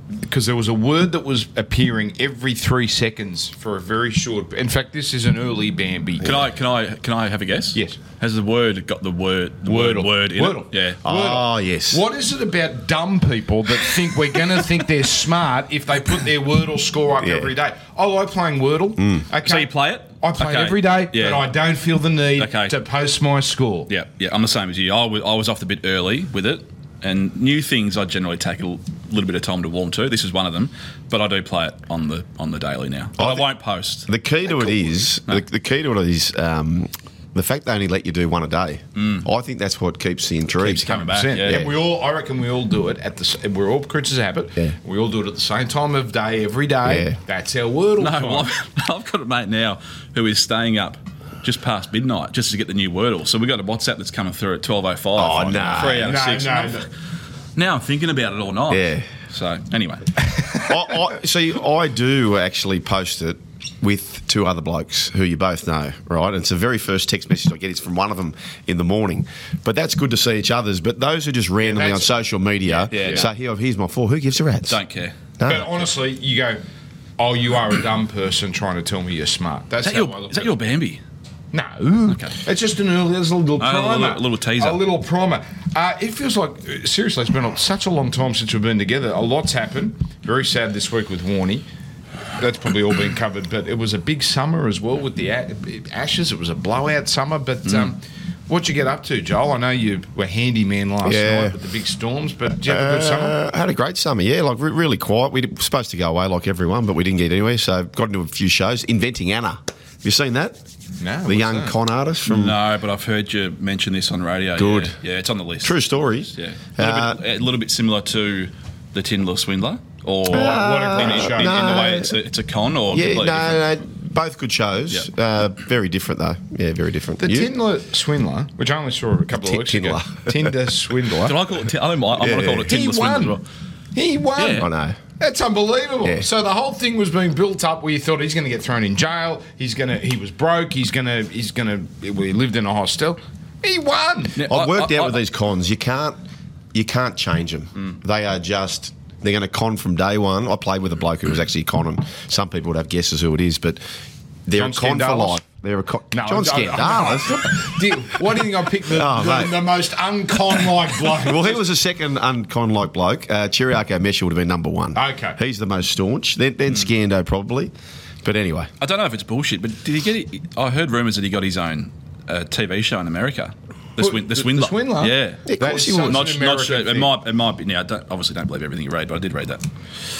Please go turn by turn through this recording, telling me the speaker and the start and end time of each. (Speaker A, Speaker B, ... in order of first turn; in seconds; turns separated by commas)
Speaker A: 0.2-6.3, Speaker B: 6.2-11.0, Speaker A: 9.7-23.9, Speaker C: 11.0-12.0, Speaker C: 17.2-17.5, Speaker C: 19.0-19.3, Speaker B: 19.4-21.5, Speaker B: 22.4-22.8, Speaker B: 23.9-34.1, Speaker C: 33.2-33.5, Speaker C: 34.1-41.7, Speaker B: 39.0-39.2, Speaker B: 40.6-41.7, Speaker A: 40.9-48.5, Speaker C: 46.9-47.2, Speaker B: 48.0-56.9, Speaker C: 55.2-56.1, Speaker A: 55.8-56.9, Speaker B: 57.6-60.1, Speaker C: 58.7-59.1, Speaker C: 60.6-74.8, Speaker A: 71.6-72.1, Speaker A: 72.7-73.2, Speaker B: 72.9-73.2, Speaker B: 74.7-75.2, Speaker C: 75.4-75.7, Speaker A: 75.4-76.6, Speaker A: 77.2-80.5, Speaker B: 79.8-81.0, Speaker A: 81.5-91.7, Speaker B: 82.1-82.4, Speaker B: 83.6-84.8, Speaker A: 92.4-103.4, Speaker C: 101.0-101.5, Speaker C: 102.7-110.6, Speaker A: 111.0-111.8, Speaker C: 111.3-112.6, Speaker B: 112.3-115.8, Speaker C: 114.6-115.0, Speaker C: 115.6-117.2, Speaker B: 116.3-123.7, Speaker A: 120.3-121.8, Speaker C: 120.3-122.1, Speaker C: 122.9-127.5, Speaker A: 127.2-131.4, Speaker C: 129.3-130.5, Speaker B: 131.2-133.4, Speaker C: 132.2-132.6, Speaker A: 132.7-133.4, Speaker A: 133.9-134.7, Speaker B: 134.4-134.7, Speaker C: 134.6-135.0, Speaker A: 135.2-144.4, Speaker B: 144.4-145.2, Speaker C: 144.5-146.2, Speaker C: 146.7-153.8, Speaker C: 154.5-157.7, Speaker A: 154.6-155.4, Speaker A: 156.1-161.6, Speaker C: 158.9-159.7, Speaker C: 161.0-167.7, Speaker A: 164.9-165.4, Speaker C: 168.2-168.7, Speaker B: 168.8-175.5, Speaker A: 174.0-177.1, Speaker C: 175.5-176.3, Speaker B: 176.1-179.6